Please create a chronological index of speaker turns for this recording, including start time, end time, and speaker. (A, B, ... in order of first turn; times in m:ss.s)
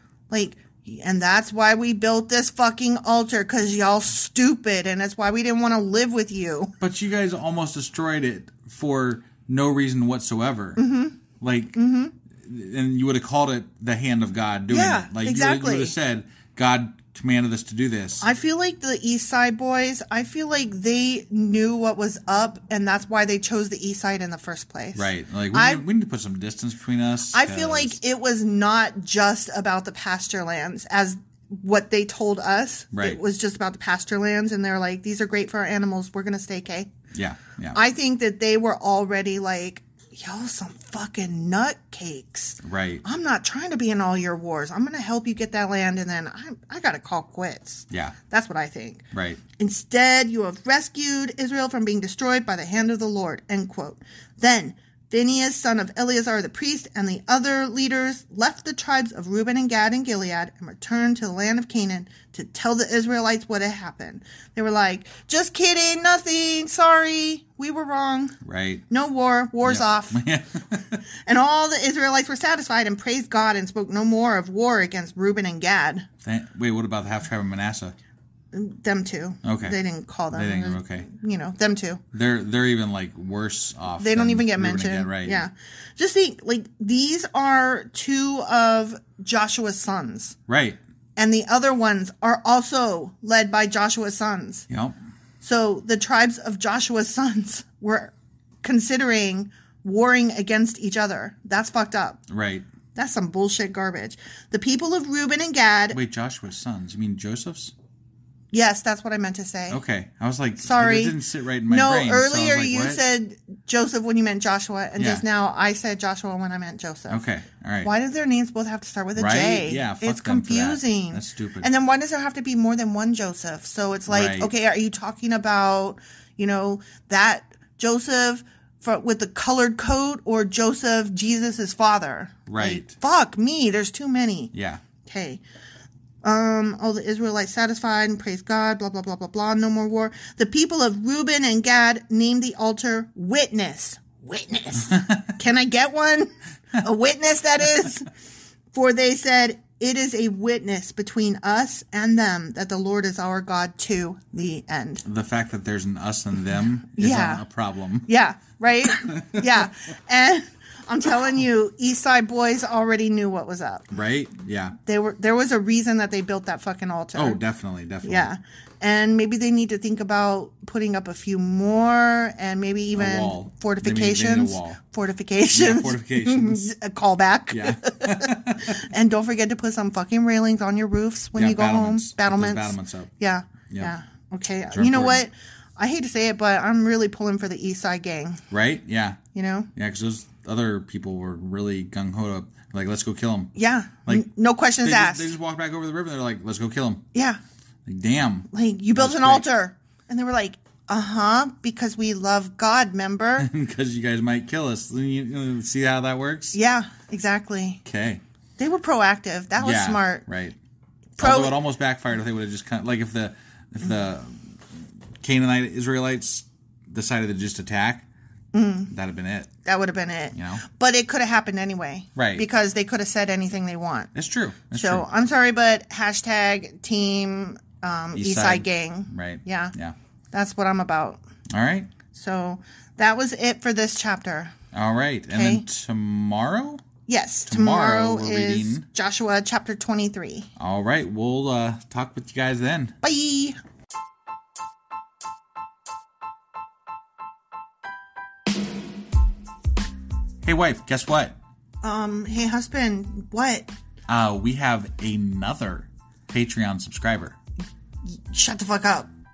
0:00.3-0:06.7 A
0:06.8-0:10.8 B
0:10.8-0:11.2 A
0:11.4-0:11.8 B
0:11.7-0:12.1 A
0:12.4-0:18.2 B
0:14.7-0:15.9 A
0:18.2-0:25.8 A
0:24.9-0:28.0 B
0:27.3-0:36.9 A
0:32.9-0:33.2 B
0:37.1-0:37.8 B
0:37.7-0:49.0 A
0:42.6-0:43.0 B
0:47.9-0:48.2 B
0:49.1-0:49.4 B
0:49.6-1:08.4 A
1:08.4-1:08.8 B
1:08.9-1:10.2 A
1:09.6-1:11.0 B
1:11.2-1:16.1 A
1:16.2-1:18.0 B
1:18.5-1:22.0 A
1:19.4-1:19.8 B
1:20.3-1:21.1 B
1:22.1-1:25.5 B
1:24.0-1:30.4 A
1:30.5-1:30.8 B
1:31.2-1:34.6 A
1:34.7-1:35.0 B
1:35.4-1:42.2 A
1:42.3-1:42.6 B
1:42.9-1:46.0 A
1:45.9-1:47.7 B
1:48.5-1:49.8 A
1:49.7-1:53.0 B
1:50.6-1:57.2 A
1:55.0-1:55.2 B
1:57.1-1:57.9 B
1:57.8-2:14.5 A
1:59.2-2:01.7 B
2:04.1-2:04.5 B
2:12.5-2:12.9 B
2:14.5-2:14.8 B
2:15.0-2:15.4 A
2:16.2-2:28.1 A
2:28.7-2:35.0 A
2:35.0-2:38.1 B
2:36.9-2:37.4 A
2:38.0-2:43.9 A
2:38.8-2:39.5 B
2:43.9-2:44.8 B
2:44.8-2:47.4 A
2:47.1-2:48.3 B
2:48.0-3:08.4 A
2:52.9-2:54.8 B
2:55.5-2:56.7 B
2:57.5-2:58.8 B
3:01.3-3:03.1 B
3:04.7-3:05.2 B
3:08.5-3:09.2 B
3:09.3-3:09.7 A
3:09.8-3:17.0 B
3:13.6-3:15.3 A
3:17.1-3:17.4 A
3:17.8-3:19.5 B
3:18.5-3:23.5 A
3:23.4-3:26.6 B
3:26.5-3:27.8 A
3:27.8-3:28.2 B
3:28.6-3:30.2 A
3:29.6-3:30.6 B
3:31.2-3:31.6 A
3:31.2-3:34.4 B
3:35.2-3:38.0 B
3:38.5-3:38.9 A
3:38.9-3:39.5 B
3:39.6-3:44.1 A
3:40.3-3:40.6 B
3:42.2-3:42.5 B
3:44.1-3:45.1 B
3:44.7-3:49.7 A
3:48.1-3:50.0 B
3:50.3-3:51.2 A
3:51.5-3:51.9 B
3:52.1-3:54.5 A
3:54.7-3:56.8 B
3:55.3-3:55.6 A
3:57.1-4:00.5 A
3:57.5-3:58.9 B
4:00.6-4:03.0 B
4:03.0-4:03.6 A
4:10.4-4:11.4 B
4:11.8-4:13.7 A
4:14.1-4:17.4 B
4:18.0-4:19.1 A